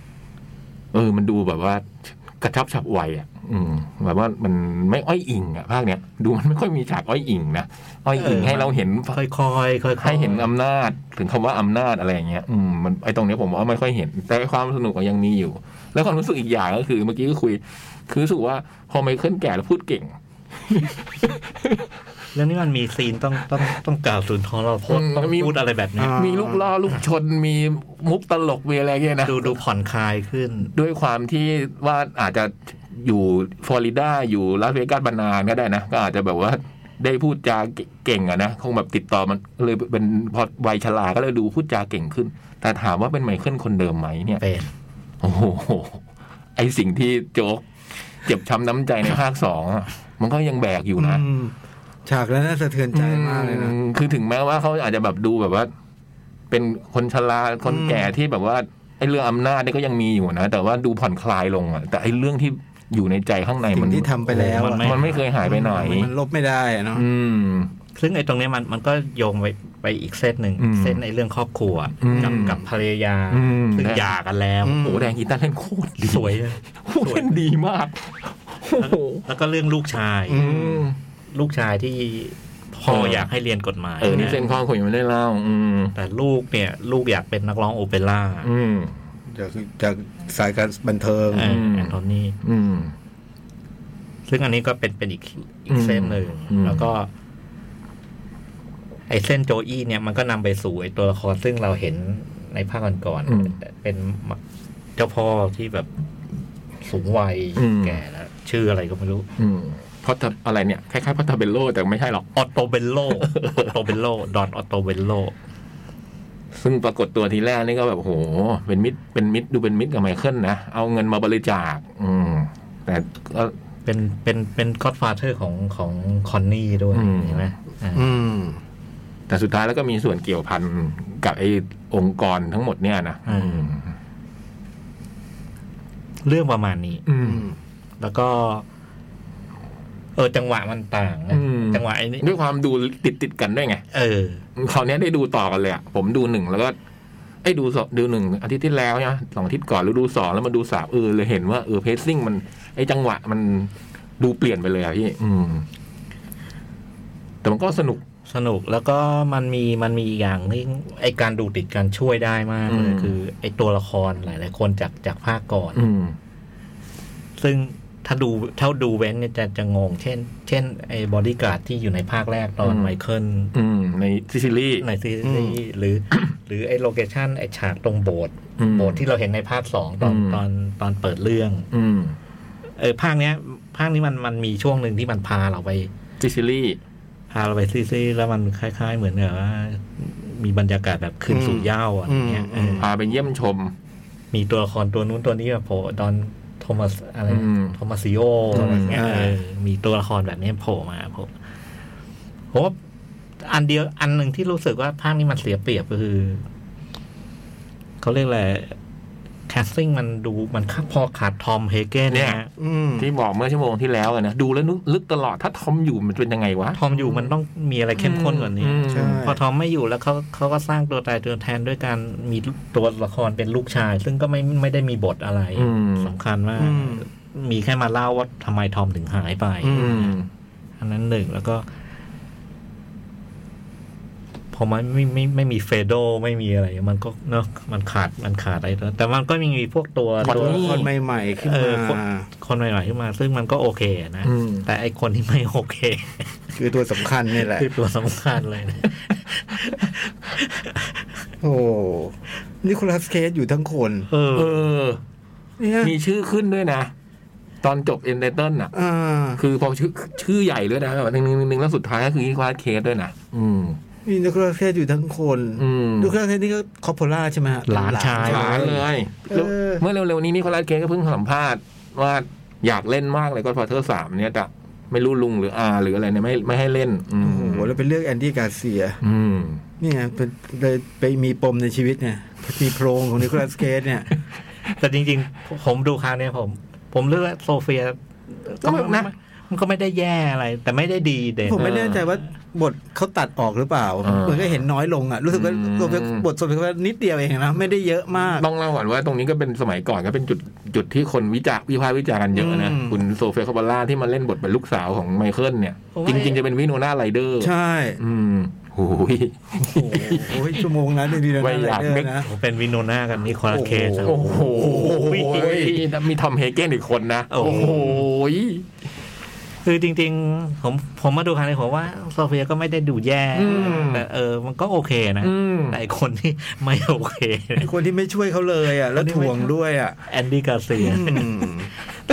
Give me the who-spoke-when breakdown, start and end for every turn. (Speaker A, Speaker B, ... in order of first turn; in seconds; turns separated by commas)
Speaker A: 0.9-9.2, Speaker B: 8.2-10.5, Speaker A: 10.0-20.1, Speaker A: 20.6-21.8, Speaker B: 22.3-26.2, Speaker A: 24.9-25.6, Speaker C: 26.0-26.6, Speaker A: 26.1-29.6, Speaker B: 29.2-30.7, Speaker A: 30.7-44.4, Speaker B: 44.4-44.7, Speaker A: 45.2-46.0, Speaker A: 46.5-47.6, Speaker A: 48.2-51.2, Speaker C: 51.0-51.5, Speaker C: 52.0-53.7, Speaker A: 52.9-55.7, Speaker A: 56.5-66.1, Speaker C: 57.6-58.1, Speaker C: 63.7-67.0, Speaker B: 64.3-65.2, Speaker A: 66.9-67.7, Speaker B: 67.9-74.9, Speaker A: 70.6-71.0, Speaker A: 72.0-72.6, Speaker C: 72.1-72.6, Speaker A: 73.3-74.1, Speaker C: 74.6-75.2, Speaker A: 74.7-79.2, Speaker B: 76.0-77.3, Speaker B: 78.8-80.7, Speaker C: 80.3-80.9, Speaker A: 80.3-81.0, Speaker B: 81.3-84.4, Speaker A: 82.9-83.3, Speaker A: 84.0-85.9, Speaker B: 85.9-88.5, Speaker A: 88.4-88.9, Speaker C: 89.3-91.5, Speaker B: 91.3-92.4, Speaker A: 91.4-92.9, Speaker B: 94.3-97.1, Speaker A: 95.7-96.9, Speaker B: 99.1-104.4, Speaker A: 103.3-103.6, Speaker B: 105.0-105.9, Speaker B: 106.8-109.3, Speaker A: 107.5-108.0, Speaker A: 109.4-112.3, Speaker B: 112.3-115.3, Speaker A: 113.2-113.8, Speaker A: 116.5-123.5, Speaker B: 123.8-128.1, Speaker A: 126.9-127.5, Speaker C: 127.9-128.6, Speaker A: 129.3-133.9, Speaker B: 133.3-133.7, Speaker B: 136.2-137.0, Speaker A: 137.1-137.4, Speaker C: 137.2-137.6, Speaker B: 138.0-138.6, Speaker B: 140.2-142.2, Speaker A: 141.3-143.8, Speaker B: 143.9-144.4, Speaker A: 144.6-146.8, Speaker A: 147.4-155.7, Speaker A: 157.4-158.0, Speaker B: 158.3-165.8, Speaker A: 162.7-163.1, Speaker A: 165.7-166.2, Speaker B: 167.4-173.5, Speaker A: 172.6-173.0, Speaker A: 173.5-174.8, Speaker B: 174.8-181.7, Speaker C: 175.2-175.6, Speaker A: 178.6-179.0, Speaker A: 180.0-180.4, Speaker A: 181.7-182.2, Speaker B: 182.8-185.9, Speaker A: 186.2-186.8, Speaker B: 187.3-192.9, Speaker C: 191.3-192.9, Speaker A: 192.8-193.7, Speaker B: 194.3-201.3, Speaker A: 197.3-197.8, Speaker A: 198.5-199.0, Speaker C: 198.5-199.4, Speaker B: 203.4-206.4, Speaker B: 208.0-208.8, Speaker B: 209.5-212.5, Speaker A: 212.1-212.4, Speaker C: 212.6-213.1, Speaker A: 213.0-216.8, Speaker B: 216.7-230.2, Speaker A: 217.9-219.2, Speaker C: 218.9-219.4, Speaker A: 225.6-226.1, Speaker C: 226.6-227.1, Speaker C: 229.6-230.0, Speaker A: 229.7-230.3, Speaker B: 230.8-231.7, Speaker B: 234.5-240.9, Speaker C: 240.2-242.3, Speaker A: 240.2-240.9, Speaker B: 241.4-246.4, Speaker A: 244.2-244.7, Speaker C: 246.5-247.7, Speaker B: 247.3-251.0, Speaker C: 251.4-254.1, Speaker B: 254.1-254.6, Speaker A: 254.3-255.0, Speaker C: 255.6-255.9, Speaker A: 255.8-256.9, Speaker A: 257.6-258.7, Speaker C: 258.7-259.4, Speaker A: 259.4-263.8, Speaker C: 264.1-269.8, Speaker A: 265.6-266.1, Speaker B: 267.7-268.8, Speaker A: 268.2-277.7, Speaker C: 277.2-279.0, Speaker A: 279.0-279.6, Speaker C: 279.8-284.1, Speaker B: 284.8-292.1, Speaker A: 288.6-289.1, Speaker C: 291.5-298.4, Speaker A: 291.6-292.0, Speaker A: 294.0-294.6, Speaker A: 295.3-296.2, Speaker A: 298.3-310.6, Speaker C: 302.3-303.0, Speaker B: 305.9-306.4, Speaker C: 307.4-308.0, Speaker C: 309.6-312.3, Speaker A: 311.3-312.1, Speaker B: 312.2-315.7, Speaker C: 313.5-314.2, Speaker A: 314.0-318.7, Speaker B: 317.3-318.0, Speaker B: 319.6-327.7, Speaker A: 323.3-324.0, Speaker A: 325.2-325.8, Speaker C: 327.6-330.0, Speaker B: 328.9-329.5, Speaker B: 330.1-331.5, Speaker C: 330.8-331.7